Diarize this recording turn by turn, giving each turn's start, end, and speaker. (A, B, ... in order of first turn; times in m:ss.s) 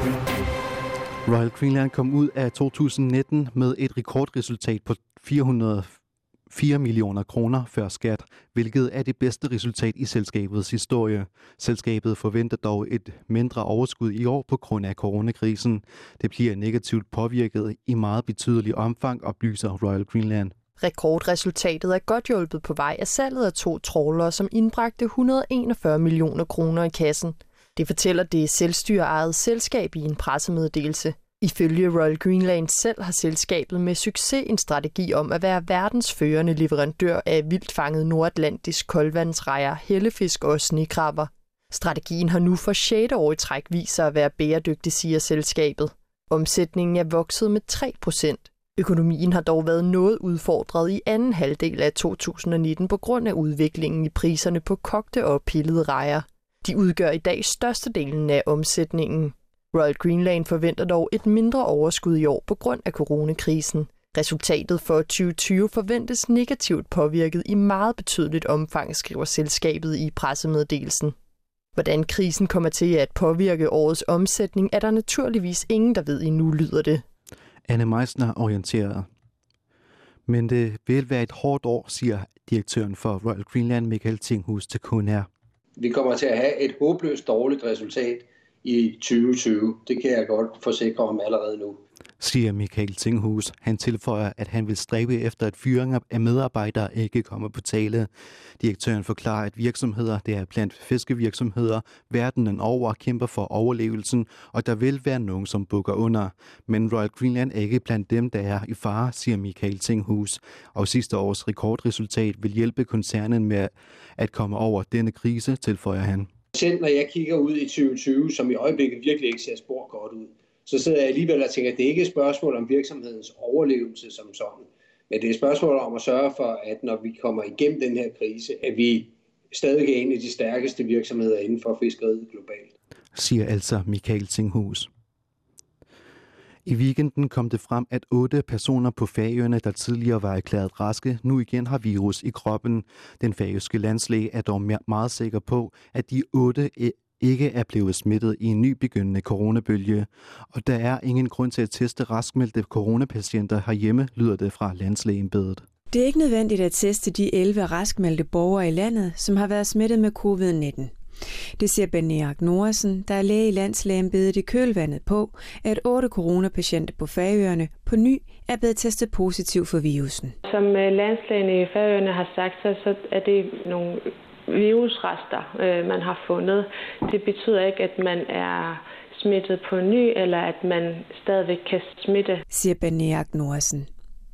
0:01.2-0:06.0 A
0:06.5-0:20.5 A
0:20.8-1:11.1 B
1:11.7-1:17.0 B
1:17.7-1:19.1 A
1:20.3-1:25.3 A
1:25.8-1:31.8 C
1:32.2-1:38.1 A
1:38.6-1:56.3 A
1:56.5-2:12.7 C
2:13.1-2:14.9 A
2:16.6-2:35.6 A
2:35.9-2:40.9 D
2:41.6-2:50.3 D
2:50.4-3:02.4 E
3:02.5-3:03.9 D